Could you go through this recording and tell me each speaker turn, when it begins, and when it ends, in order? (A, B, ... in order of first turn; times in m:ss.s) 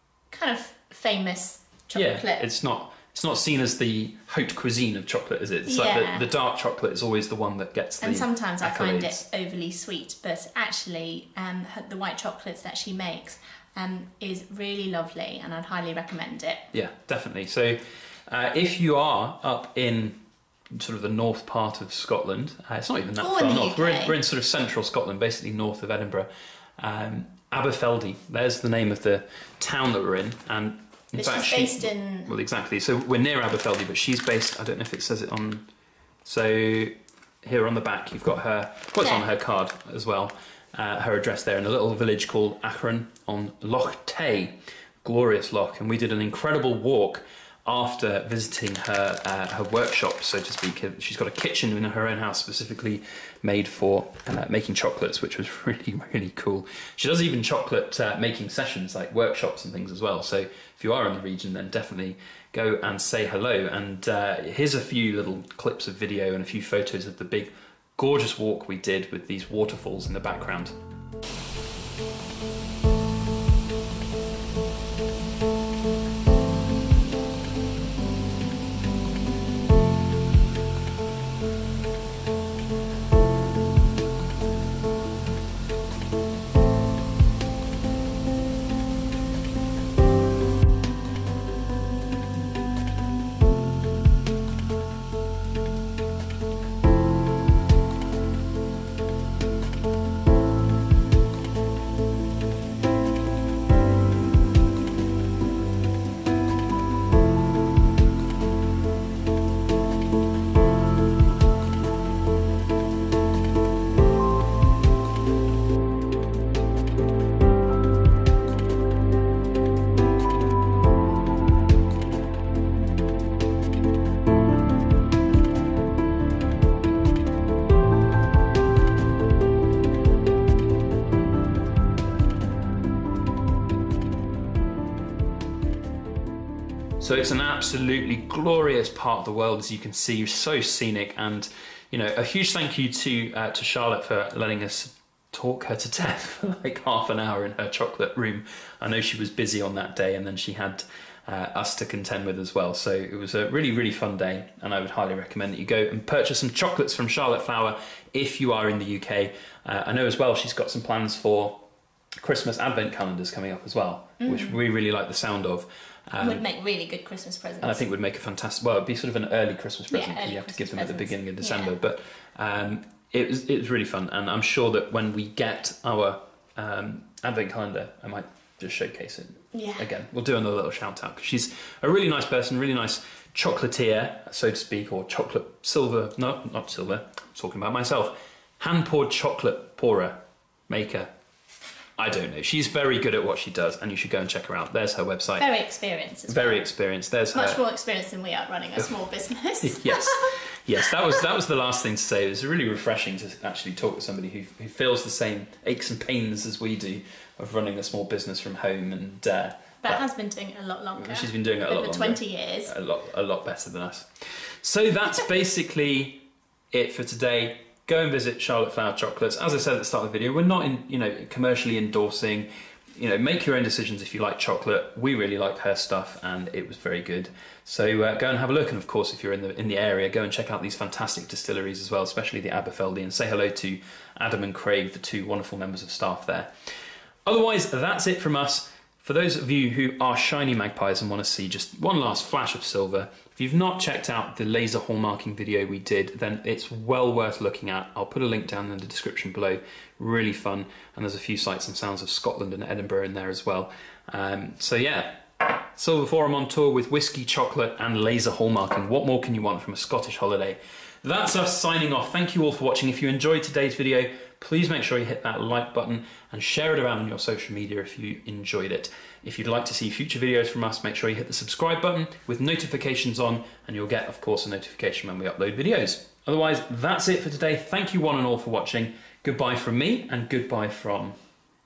0:00.3-0:02.4 A
0:02.0-0:09.2 B
0:05.6-0:06.3 A
0:08.0-0:16.6 A
0:16.7-0:20.2 B
0:20.7-0:35.7 B
0:23.2-0:24.2 A
0:31.2-0:32.3 A
0:36.2-1:10.8 B
0:39.0-0:39.3 A
2:17.0-2:41.6 B
2:42.2-2:46.4 B
2:44.2-2:44.6 A
2:46.2-2:47.9 A
2:47.6-3:11.1 B
2:49.9-2:51.7 A
2:59.5-2:59.9 A
3:12.0-3:15.5 B
3:15.4-3:16.6 A
3:16.3-3:17.6 B
3:17.3-3:20.4 A
3:19.6-3:30.0 B
3:29.8-3:32.7 A
3:31.0-3:56.5 B
3:57.3-4:41.2 B